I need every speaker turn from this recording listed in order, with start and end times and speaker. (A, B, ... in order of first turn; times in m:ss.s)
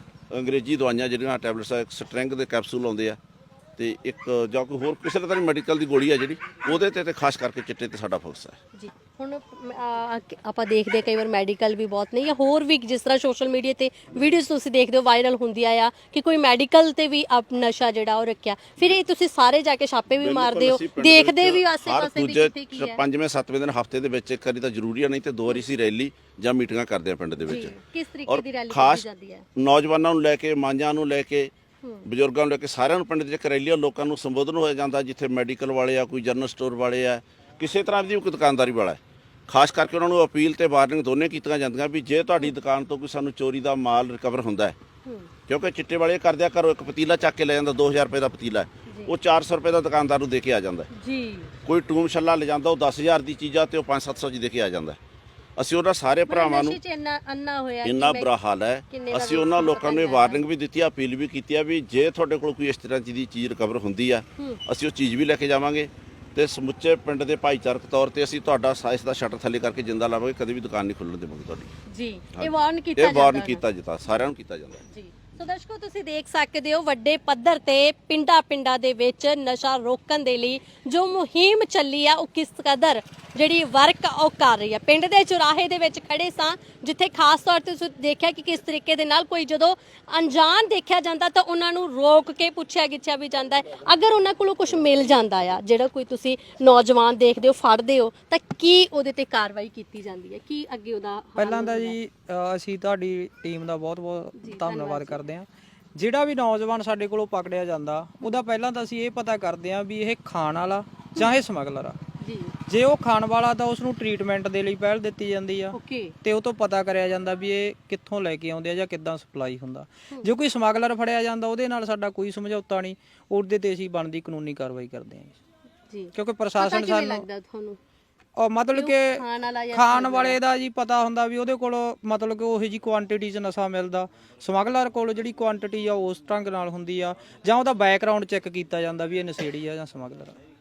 0:00.3-0:03.2 A
0:03.8-0:08.6 A
0:08.7-0:23.0 B
0:20.2-0:27.7 A
0:27.4-0:29.4 B
0:28.3-0:29.0 A
0:29.6-0:31.5 A
0:31.8-0:32.1 B
0:32.0-0:44.8 A
0:45.0-0:45.3 B
0:45.5-0:50.9 A
0:50.9-0:51.5 B
0:51.6-0:55.0 A
0:55.6-0:56.8 A
0:56.3-0:58.3 B
0:57.8-1:11.7 A
0:58.9-1:00.4 B
1:11.9-1:13.6 B
1:12.3-1:14.8 A
1:14.9-1:42.0 B
1:41.4-1:52.0 C
1:44.4-1:45.2 B
1:52.2-1:52.6 B
1:52.7-2:05.4 C
1:55.7-1:56.1 B
2:05.9-2:07.8 B
2:06.1-2:07.2 C
2:08.4-2:20.4 C
2:08.7-2:10.4 B